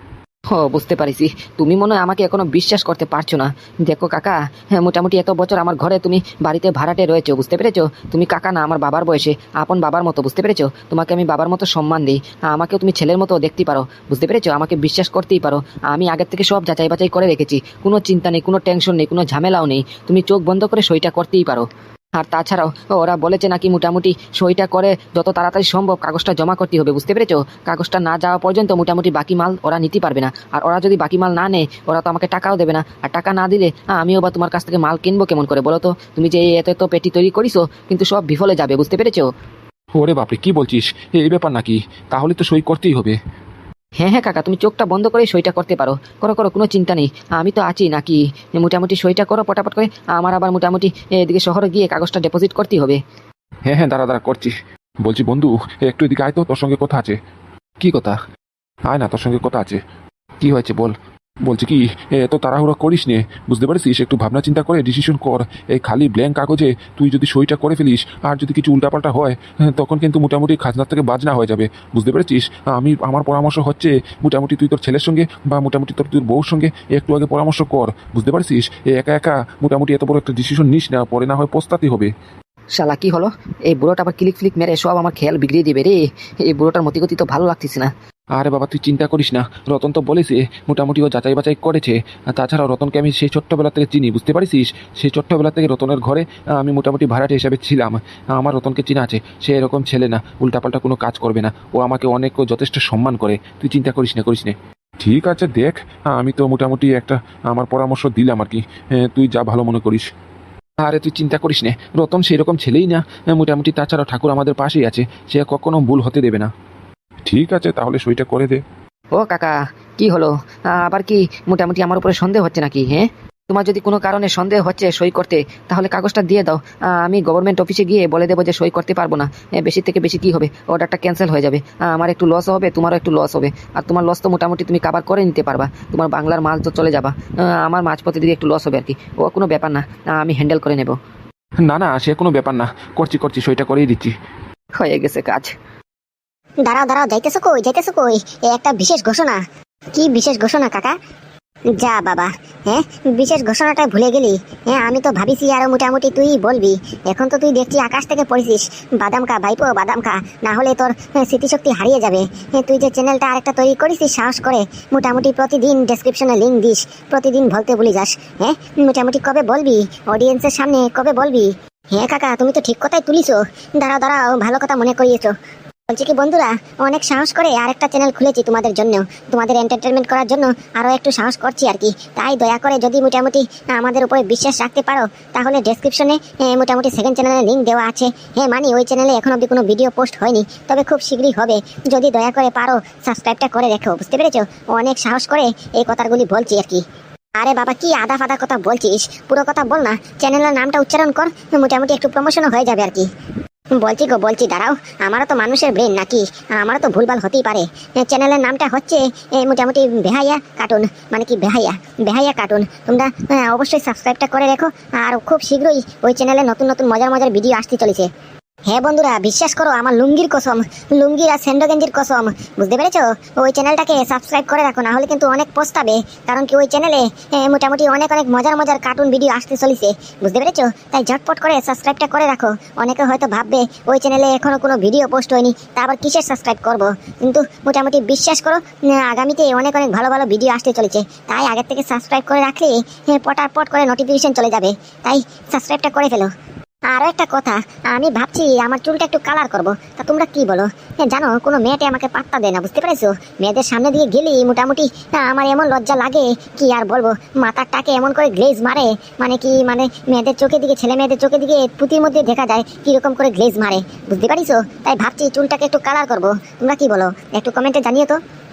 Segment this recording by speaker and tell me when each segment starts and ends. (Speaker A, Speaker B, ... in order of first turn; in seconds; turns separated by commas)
Speaker A: 0.5-39.3, Speaker B: 40.0-43.2, Speaker A: 44.0-53.0, Speaker B: 53.6-54.5, Speaker B: 55.0-57.1, Speaker B: 57.8-58.2, Speaker B: 58.9-59.8, Speaker B: 60.4-60.9, Speaker B: 61.5-82.1, Speaker A: 82.8-87.9, Speaker B: 88.3-110.0, Speaker B: 110.8-116.5, Speaker B: 117.3-118.6, Speaker A: 119.1-140.9, Speaker B: 141.6-144.1, Speaker A: 144.8-145.5, Speaker C: 146.6-149.4, Speaker C: 149.9-150.9, Speaker C: 151.8-175.3, Speaker C: 175.9-196.8, Speaker C: 197.4-203.1, Speaker C: 203.8-218.1, Speaker C: 218.7-246.3, Speaker C: 246.9-268.2